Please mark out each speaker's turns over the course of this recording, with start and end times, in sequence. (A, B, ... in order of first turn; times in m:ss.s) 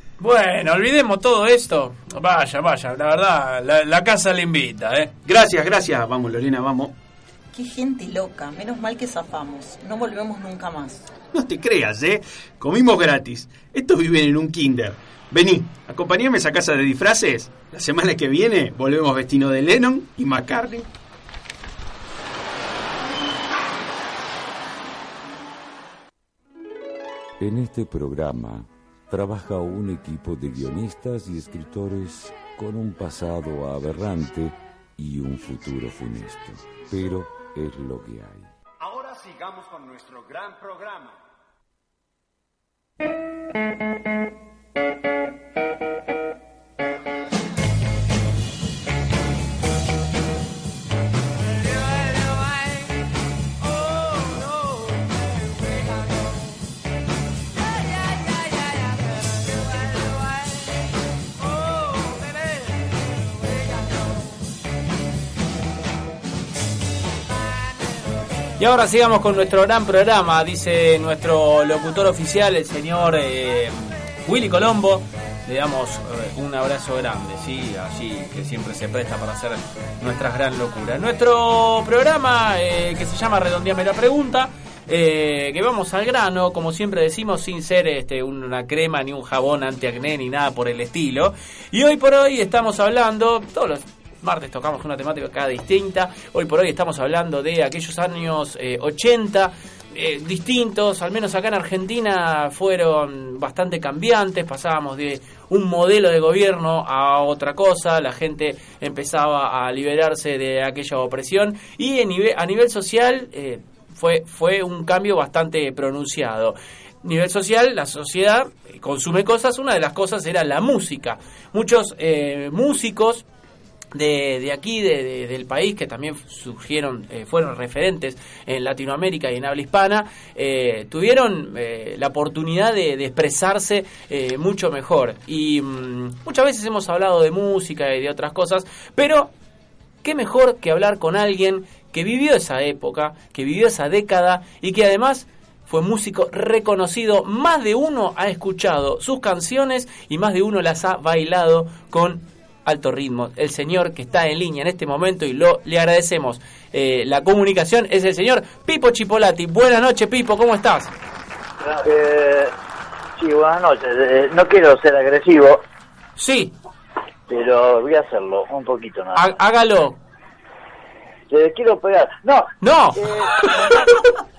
0:00.2-0:05.1 A
0:05.2-0:07.0 B
0:07.5-0:11.1 C
0:11.3-0:20.9 B
0:27.4-0:38.5 D
0:38.9-0:41.1 E
1:08.6-2:03.2 A
2:03.9-2:19.3 A
2:20.0-2:40.9 A
2:41.6-2:42.5 F
2:43.2-2:45.6 F
2:46.2-2:46.6 A
2:47.3-2:49.3 F
2:49.2-2:50.0 A
2:51.3-2:54.1 F
2:52.6-2:54.1 A